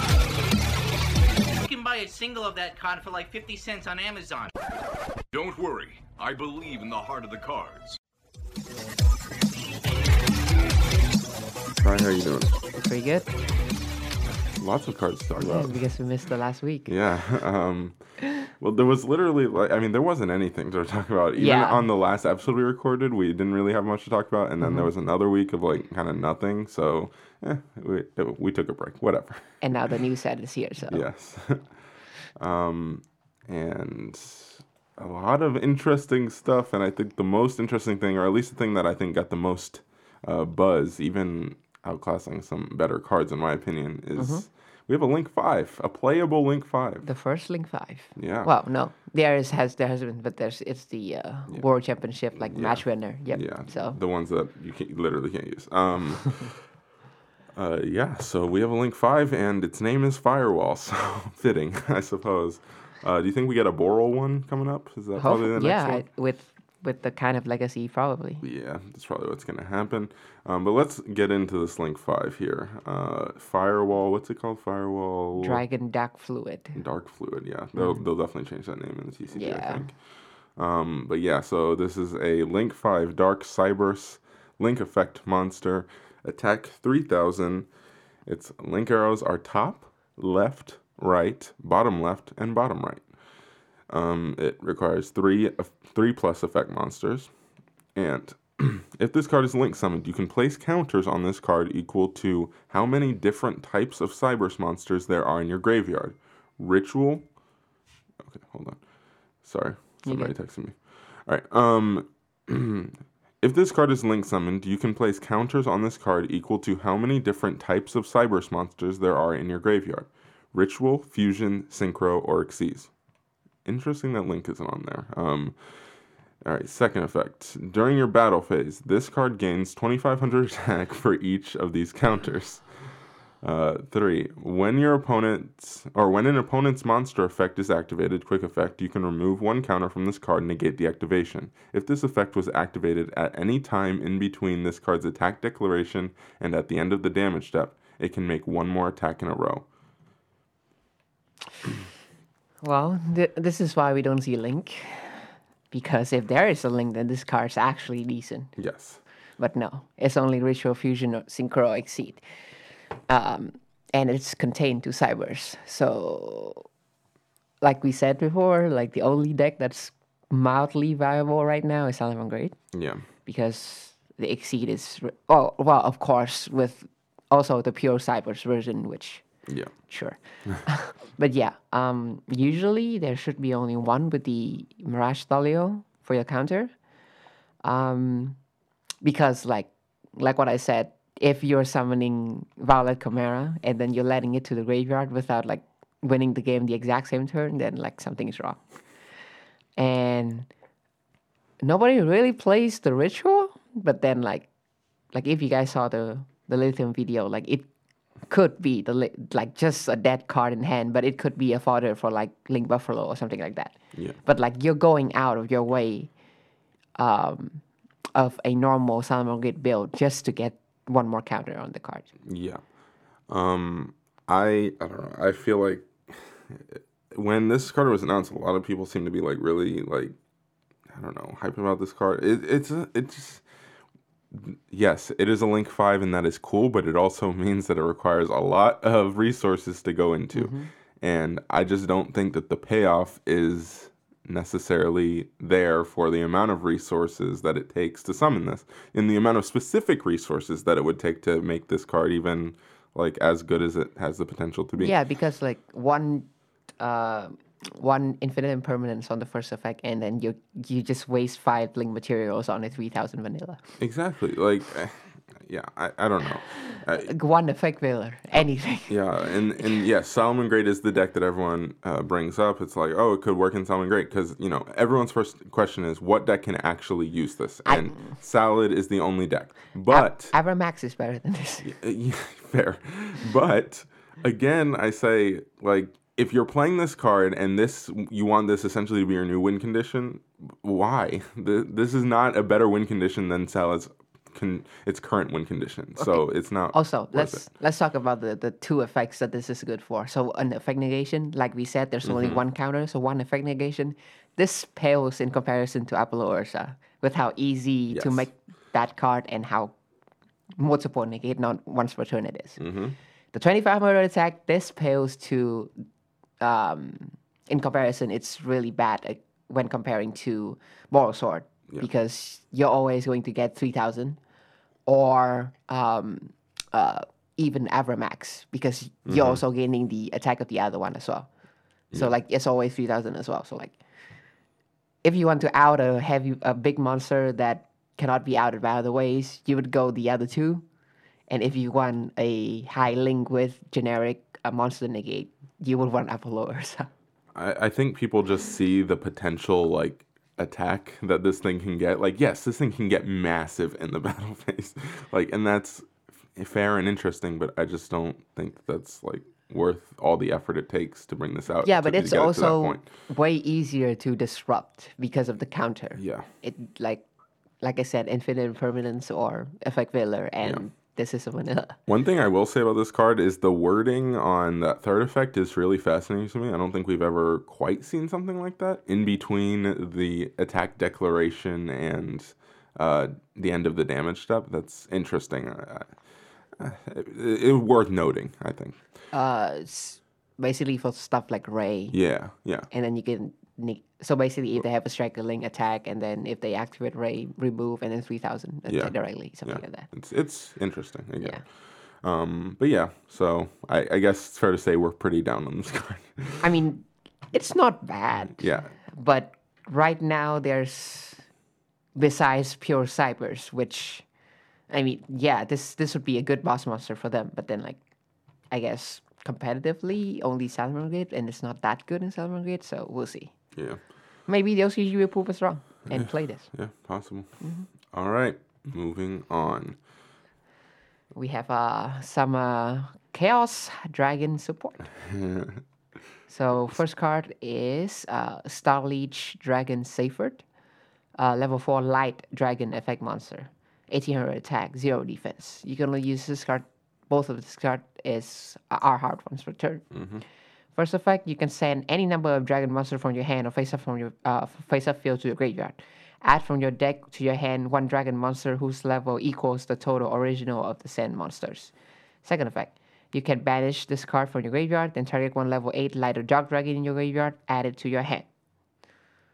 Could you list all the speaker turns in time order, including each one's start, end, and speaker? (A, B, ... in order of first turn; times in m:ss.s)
0:01.5-0:04.5 A
0:05.3-0:08.0 B
0:11.8-0:12.6 C
0:12.7-0:13.3 D
0:14.6-0:15.8 C
0:15.4-0:16.9 D
0:16.9-0:29.4 C
0:21.4-0:21.8 D
0:24.6-0:24.9 D
0:29.6-0:31.0 D
0:30.9-0:31.7 C
0:32.4-0:47.0 C
0:44.2-0:44.4 D
0:47.0-0:54.0 D
0:48.2-0:48.5 C
0:52.4-0:56.6 C
0:57.6-1:06.0 C
1:05.2-1:08.4 D
1:08.4-1:15.6 C
1:15.4-1:16.8 D
1:16.7-1:20.0 C
1:19.3-1:19.8 D
1:20.6-1:27.7 C
1:28.2-1:33.0 C
1:33.9-1:37.3 C
1:37.9-1:47.2 C
1:48.2-1:48.8 C
1:49.4-2:02.9 C
1:50.0-1:50.3 D
2:03.6-2:12.7 C
2:13.4-2:29.7 C
2:32.6-2:38.6 D
2:38.6-2:39.0 C
2:39.4-2:42.2 D
2:43.1-2:46.7 D
2:47.6-2:52.6 D
2:52.7-2:53.0 C
2:53.2-2:59.2 D
2:59.5-2:59.7 C
2:59.8-3:06.7 D
3:07.6-3:08.4 D
3:09.0-3:18.6 D
3:19.8-3:20.5 D
3:21.6-3:24.5 D
3:25.1-3:27.7 D
3:28.3-3:36.1 D
3:37.0-3:37.6 D
3:38.2-3:42.1 D
3:42.2-3:42.6 C
3:43.3-3:50.2 C
3:50.9-3:53.4 C
3:54.3-4:14.9 C
4:00.3-4:00.7 D
4:14.8-4:23.6 D
4:23.8-4:27.1 C
4:27.0-4:29.0 D
4:28.9-4:40.3 C
4:37.7-4:38.0 D
4:39.9-4:41.7 D
4:41.6-4:57.4 C
4:56.0-5:09.7 D
5:02.0-5:02.4 C
5:07.9-5:08.3 C
5:10.6-5:12.6 D
5:12.6-5:13.0 C
5:13.3-5:15.7 D
5:16.4-5:24.2 D
5:24.9-5:31.3 D
5:29.1-5:29.4 C
5:31.9-5:33.8 D
5:35.0-5:40.6 D
5:41.3-5:46.9 D
5:47.3-6:02.9 C
6:01.6-6:07.0 D
6:06.0-6:06.3 C
6:07.6-6:11.8 D
6:11.9-6:25.9 C
6:26.6-6:28.8 C
6:29.1-6:32.0 D
6:31.9-6:32.7 C
6:32.7-6:39.9 D
6:38.7-6:46.5 C
6:46.4-6:51.2 D
6:48.4-6:48.7 C
6:51.9-6:54.0 D
6:54.7-6:57.8 D
6:58.5-7:03.3 D
7:04.3-7:06.5 D
7:05.9-7:09.8 C
7:07.4-7:07.7 D
7:11.1-7:14.9 D
7:15.1-7:15.6 C
7:16.3-7:20.4 D
7:21.2-7:29.9 D
7:29.9-7:30.2 C
7:30.8-7:48.3 D